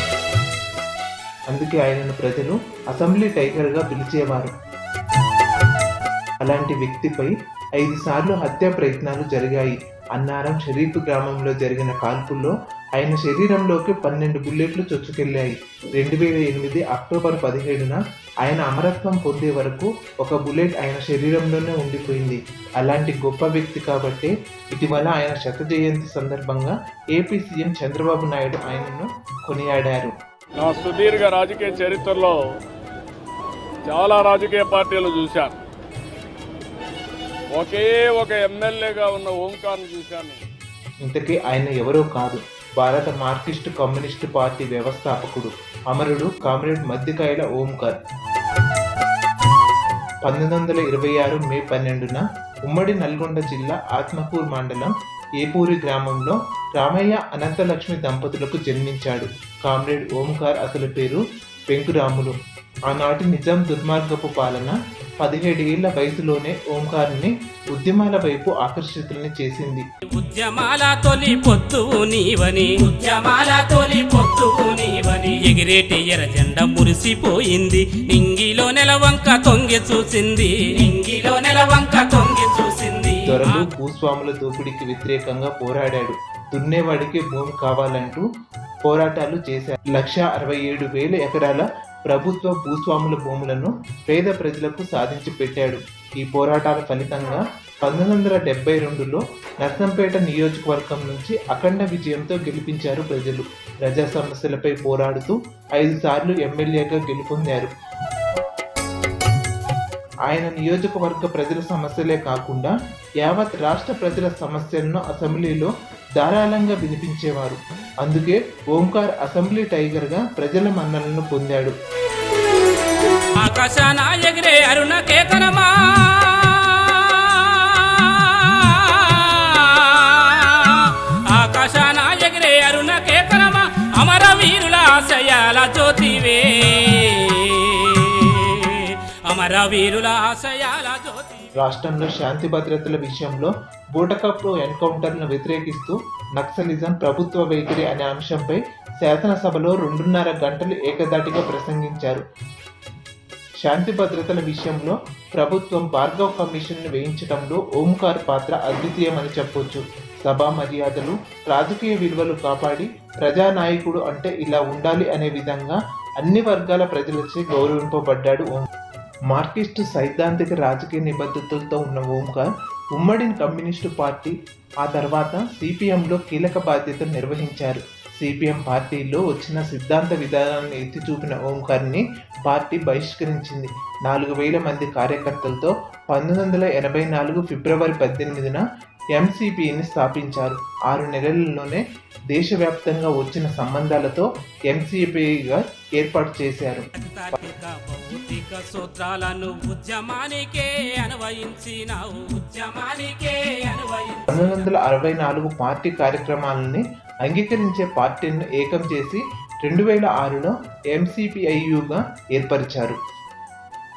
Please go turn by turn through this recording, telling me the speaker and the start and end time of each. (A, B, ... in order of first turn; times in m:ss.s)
0:01.5-0:04.5 A
0:06.4-0:30.2 A
0:30.6-0:32.4 B
0:33.8-0:35.6 B
0:37.5-0:40.4 B
0:41.0-0:48.0 A
0:50.2-1:02.4 A
1:02.9-1:09.8 A
1:10.1-1:23.7 C
1:23.3-1:28.2 A
1:28.8-1:47.7 A
1:50.3-2:01.7 A
2:03.4-2:21.5 C
2:21.6-2:32.2 A
2:33.6-2:48.7 A
2:49.3-3:08.6 A
3:09.1-3:16.9 A
3:17.0-3:24.6 C
3:24.3-3:33.0 A